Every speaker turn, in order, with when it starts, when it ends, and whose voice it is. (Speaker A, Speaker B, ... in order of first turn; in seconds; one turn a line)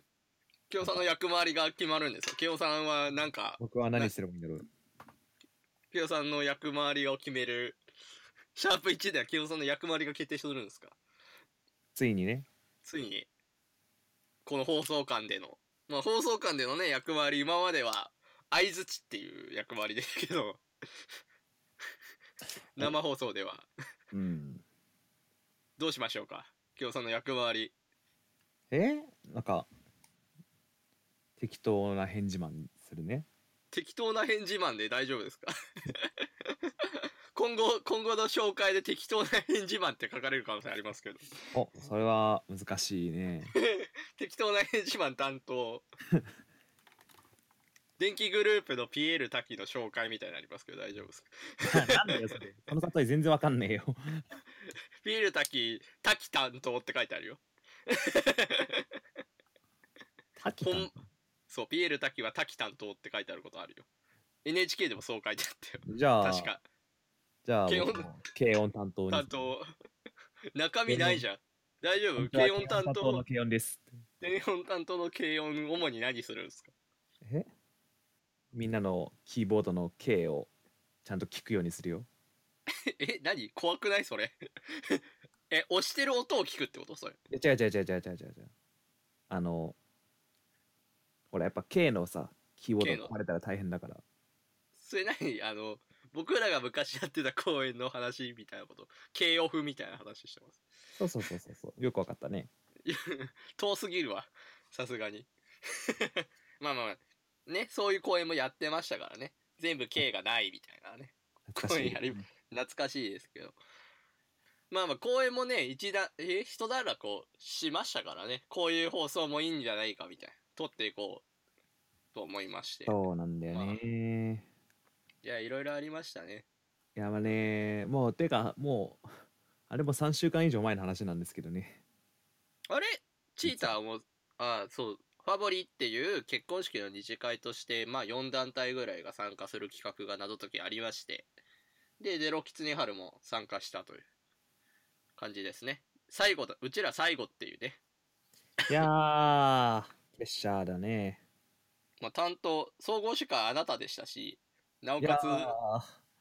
Speaker A: 0.7-4.1
Speaker B: 3.6-4.7
Speaker A: 5.9-7.8
Speaker A: 8.5-10.9
Speaker B: 11.9-12.5
Speaker A: 12.8-13.3
Speaker A: 14.4-20.6
Speaker A: 22.8-23.7
Speaker B: 24.1-24.6
Speaker A: 25.8-27.7
Speaker B: 28.7-29.7
Speaker B: 31.4-33.3
Speaker A: 33.7-36.1
Speaker A: 36.8-41.3
Speaker B: 41.5-43.5
Speaker A: 43.5-45.9
Speaker A: 48.0-52.3
Speaker B: 51.6-54.2
Speaker A: 55.0-58.8
Speaker B: 60.4-60.9
Speaker A: 60.6-60.9
Speaker A: 61.5-63.9
Speaker A: 64.4-66.6
Speaker B: 65.8-66.5
Speaker B: 67.4-69.5
Speaker A: 67.7-68.2
Speaker A: 69.1-69.7
Speaker A: 70.5-73.2
Speaker B: 70.9-71.2
Speaker B: 72.2-73.9
Speaker A: 74.2-76.7
Speaker B: 77.2-77.5
Speaker B: 78.5-80.5
Speaker B: 81.0-82.1
Speaker A: 82.8-87.2
Speaker B: 87.3-88.5
Speaker B: 89.3-89.8
Speaker B: 91.3-94.0
Speaker A: 92.8-93.1
Speaker A: 94.8-100.6
Speaker B: 101.0-102.5
Speaker A: 102.8-105.3
Speaker A: 105.9-113.6
Speaker B: 111.5-112.2
Speaker A: 114.7-121.2
Speaker A: 122.1-123.8
Speaker B: 122.9-124.5
Speaker A: 125.2-126.4
Speaker B: 127.0-129.1
Speaker B: 129.7-131.8
Speaker A: 132.7-141.3
Speaker B: 133.4-133.7
Speaker A: 142.0-144.0
Speaker A: 145.2-147.8
Speaker B: 148.7-151.2
Speaker A: 152.0-155.5
Speaker B: 155.0-155.9